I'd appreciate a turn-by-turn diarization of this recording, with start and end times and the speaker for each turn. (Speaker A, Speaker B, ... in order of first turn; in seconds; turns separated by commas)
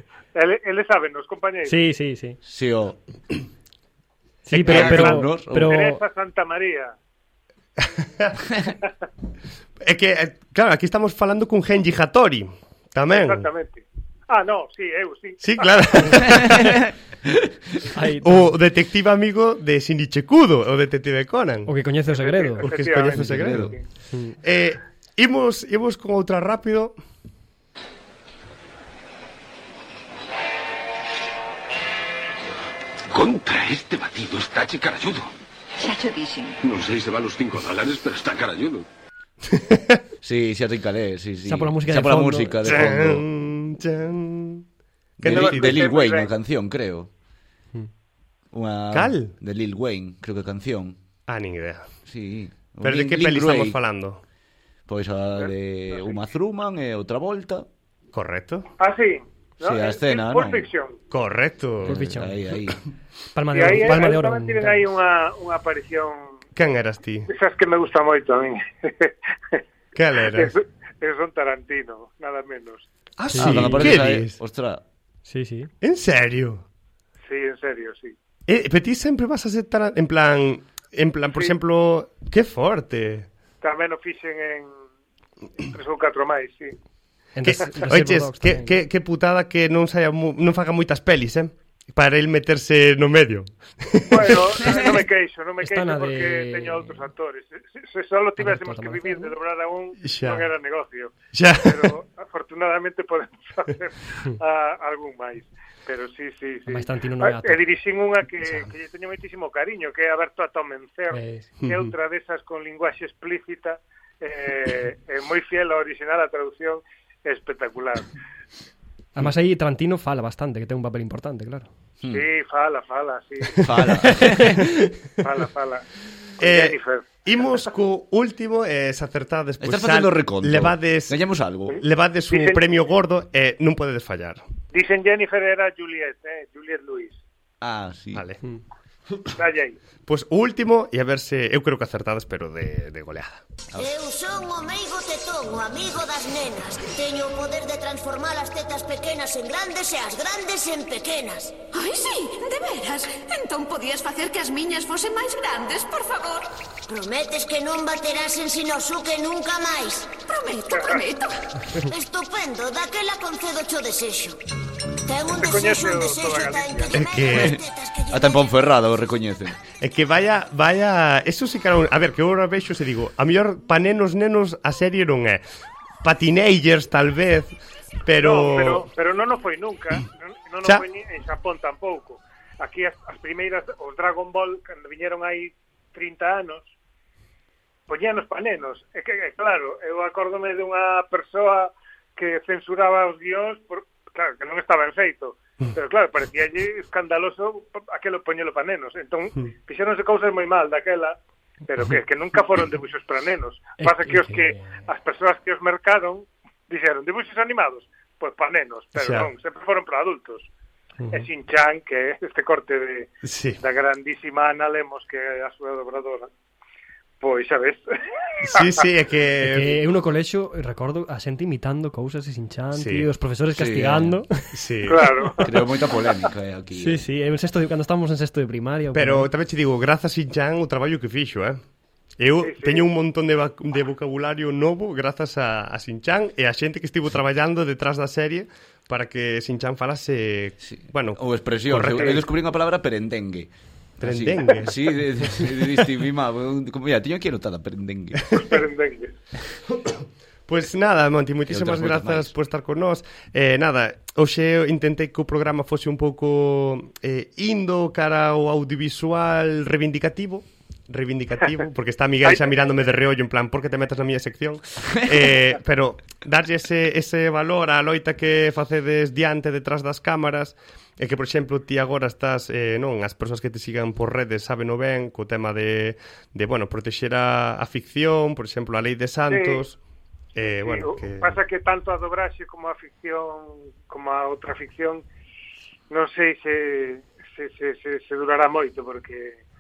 Speaker A: 0.3-1.8, Speaker B: 1.7-2.4, Speaker C: 2.5-3.0, Speaker B: 4.5-6.0, Speaker D: 4.6-4.9, Speaker C: 4.7-5.8, Speaker A: 4.7-7.0, Speaker D: 7.9-8.4, Speaker D: 9.8-13.5, Speaker A: 13.1-16.3, Speaker D: 15.4-16.8, Speaker C: 16.3-16.7, Speaker B: 17.9-18.5, Speaker D: 18.2-21.7, Speaker B: 21.7-22.7, Speaker A: 22.1-23.8, Speaker D: 22.6-23.7, Speaker C: 23.1-23.7, Speaker B: 24.1-24.4, Speaker D: 24.4-27.0, Speaker E: 33.1-35.3, Speaker F: 35.8-36.6, Speaker E: 36.6-38.9, Speaker D: 39.5-40.0, Speaker C: 40.2-43.2, Speaker B: 41.4-42.9, Speaker D: 42.7-44.7, Speaker D: 45.2-45.9, Speaker C: 45.2-47.1, Speaker A: 45.2-46.3, Speaker C: 48.5-51.0, Speaker D: 48.9-49.3, Speaker D: 51.3-51.9, Speaker C: 52.1-53.8, Speaker D: 52.8-54.2, Speaker C: 54.9-57.7, Speaker A: 55.4-56.2, Speaker D: 58.1-58.7, Speaker A: 58.8-61.0, Speaker C: 59.6-60.7, Speaker D: 61.1-62.0, Speaker C: 61.8-62.8, Speaker B: 61.9-62.4, Speaker B: 63.4-64.9, Speaker A: 63.5-66.4, Speaker D: 66.6-67.3, Speaker A: 67.3-69.6, Speaker D: 70.0-70.5, Speaker A: 70.2-72.9, Speaker D: 73.2-74.4, Speaker B: 73.3-73.9, Speaker C: 73.4-74.8, Speaker B: 75.3-75.7, Speaker D: 75.8-76.6, Speaker A: 77.2-78.2, Speaker D: 78.5-83.3, Speaker A: 83.6-84.8, Speaker A: 85.6-86.8, Speaker B: 87.3-88.8, Speaker D: 87.4-94.8, Speaker A: 94.1-118.1, Speaker B: 95.6-97.1, Speaker B: 98.4-99.3, Speaker D: 100.0-100.5, Speaker D: 101.3-101.9, Speaker B: 106.7-107.6, Speaker B: 111.1-111.5, Speaker D: 111.6-111.9, Speaker B: 119.2-121.7, Speaker A: 122.1-123.7, Speaker C: 123.6-124.6, Speaker B: 124.3-124.7, Speaker A: 125.2-125.9, Speaker A: 126.4-127.2, Speaker D: 126.4-131.2, Speaker C: 129.6-131.8, Speaker D: 131.7-134.4, Speaker A: 131.7-132.7, Speaker A: 134.7-137.2, Speaker C: 137.6-138.3, Speaker D: 138.1-138.4, Speaker A: 139.3-139.8, Speaker D: 140.1-143.4, Speaker G: 143.8-151.5, Speaker F: 151.7-156.5, Speaker G: 156.9-160.1, Speaker F: 160.3-161.4, Speaker A: 160.7-161.1, Speaker G: 161.8-164.4, Speaker G: 165.1-168.5, Speaker A: 165.3-167.1, Speaker D: 166.9-167.6, Speaker C: 167.3-169.6, Speaker D: 169.8-175.4, Speaker D: 176.0-178.9, Speaker A: 178.2-186.7, Speaker A: 187.9-210.5, Speaker B: 203.8-204.7, Speaker D: 208.9-209.3, Speaker B: 211.0-211.3, Speaker A: 211.1-216.3, Speaker D: 213.2-213.6, Speaker A: 217.2-217.9, Speaker A: 218.4-218.9, Speaker D: 218.4-219.8, Speaker B: 219.5-224.6, Speaker D: 222.8-223.1, Speaker C: 223.5-224.2, Speaker D: 224.5-225.1, Speaker A: 224.8-225.7, Speaker C: 225.4-227.1, Speaker B: 226.8-229.3, Speaker D: 228.9-231.6, Speaker D: 232.2-242.2, Speaker A: 232.4-232.9, Speaker C: 240.6-248.3, Speaker D: 244.0-244.7, Speaker A: 248.3-249.1, Speaker D: 249.8-279.8, Speaker C: 251.5-252.3, Speaker A: 279.3-279.6, Speaker D: 280.4-281.4, Speaker A: 280.6-285.1, Speaker A: 285.9-289.4